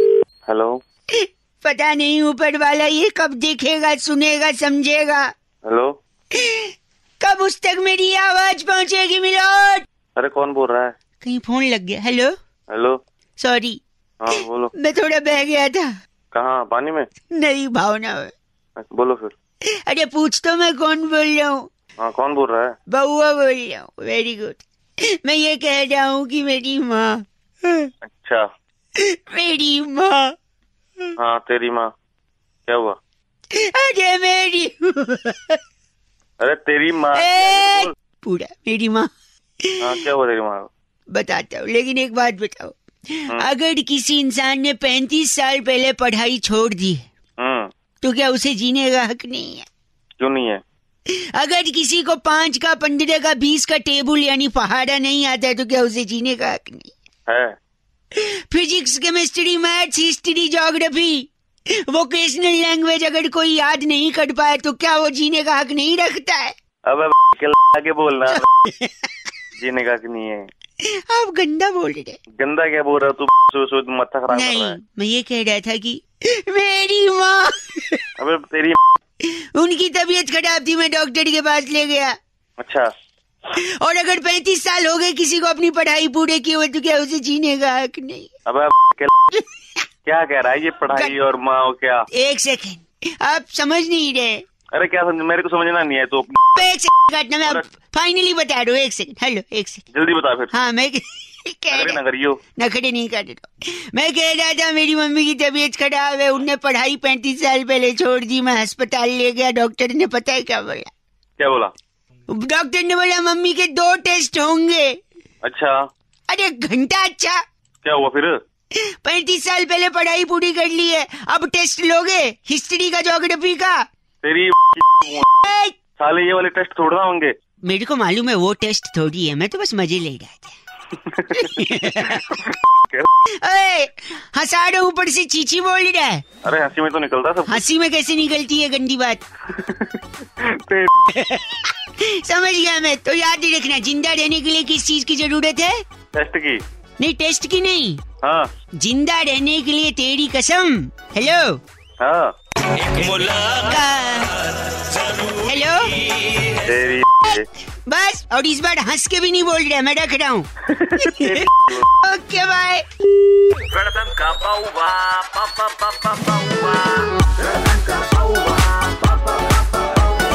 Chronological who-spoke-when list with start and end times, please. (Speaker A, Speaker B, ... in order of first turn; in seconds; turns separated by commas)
Speaker A: 0.5-0.8, Speaker B: 1.1-5.3, Speaker A: 5.7-6.0, Speaker B: 6.3-9.8, Speaker A: 10.2-10.9, Speaker B: 11.2-12.3, Speaker A: 12.7-13.0, Speaker B: 13.4-13.8, Speaker A: 14.2-14.7, Speaker B: 14.3-15.9, Speaker A: 16.3-17.1, Speaker B: 17.3-18.3, Speaker A: 18.8-19.3, Speaker B: 19.9-21.7, Speaker A: 22.0-22.7, Speaker B: 22.9-24.6, Speaker B: 25.2-27.9, Speaker A: 28.1-28.4, Speaker B: 29.0-30.3, Speaker A: 31.2-31.9, Speaker A: 32.7-33.0, Speaker B: 33.5-35.6, Speaker A: 36.4-37.9, Speaker B: 37.1-39.1, Speaker A: 39.8-40.7, Speaker B: 41.1-47.0, Speaker A: 47.4-47.7, Speaker B: 48.0-49.7, Speaker A: 50.2-50.6, Speaker B: 51.1-56.9, Speaker A: 57.3-57.5, Speaker B: 58.1-61.3, Speaker B: 61.9-66.5, Speaker A: 66.9-68.5, Speaker B: 68.6-69.1, Speaker A: 69.6-70.5, Speaker B: 70.8-72.2, Speaker A: 72.4-74.8, Speaker B: 74.3-78.0, Speaker A: 78.2-78.8, Speaker B: 79.4-82.2, Speaker A: 82.6-82.9, Speaker B: 83.5-88.3, Speaker A: 88.5-89.1, Speaker A: 90.0-92.0, Speaker B: 92.1-94.4, Speaker A: 94.7-96.3, Speaker B: 96.5-99.8, Speaker A: 99.9-100.5, Speaker B: 100.5-102.0, Speaker A: 101.7-102.4, Speaker B: 102.5-110.9, Speaker A: 111.4-111.7, Speaker B: 112.3-115.0, Speaker A: 115.4-115.7, Speaker B: 116.3-117.4, Speaker A: 117.8-118.3, Speaker B: 119.0-123.8, Speaker A: 124.2-125.2, Speaker B: 125.4-125.7, Speaker A: 126.0-127.3, Speaker B: 127.7-130.5, Speaker A: 131.0-133.1, Speaker B: 131.3-132.3, Speaker B: 133.4-136.2, Speaker A: 136.4-137.6, Speaker B: 137.5-139.2, Speaker A: 139.5-140.9, Speaker B: 141.1-145.8, Speaker A: 146.1-146.6, Speaker B: 147.0-148.0, Speaker A: 148.2-148.5, Speaker B: 148.8-151.6, Speaker A: 152.0-152.3, Speaker C: 152.7-156.7, Speaker B: 153.6-154.4, Speaker B: 155.4-156.0, Speaker A: 156.6-157.4, Speaker B: 157.3-161.5, Speaker A: 160.7-161.8, Speaker B: 162.0-162.8, Speaker C: 163.6-169.9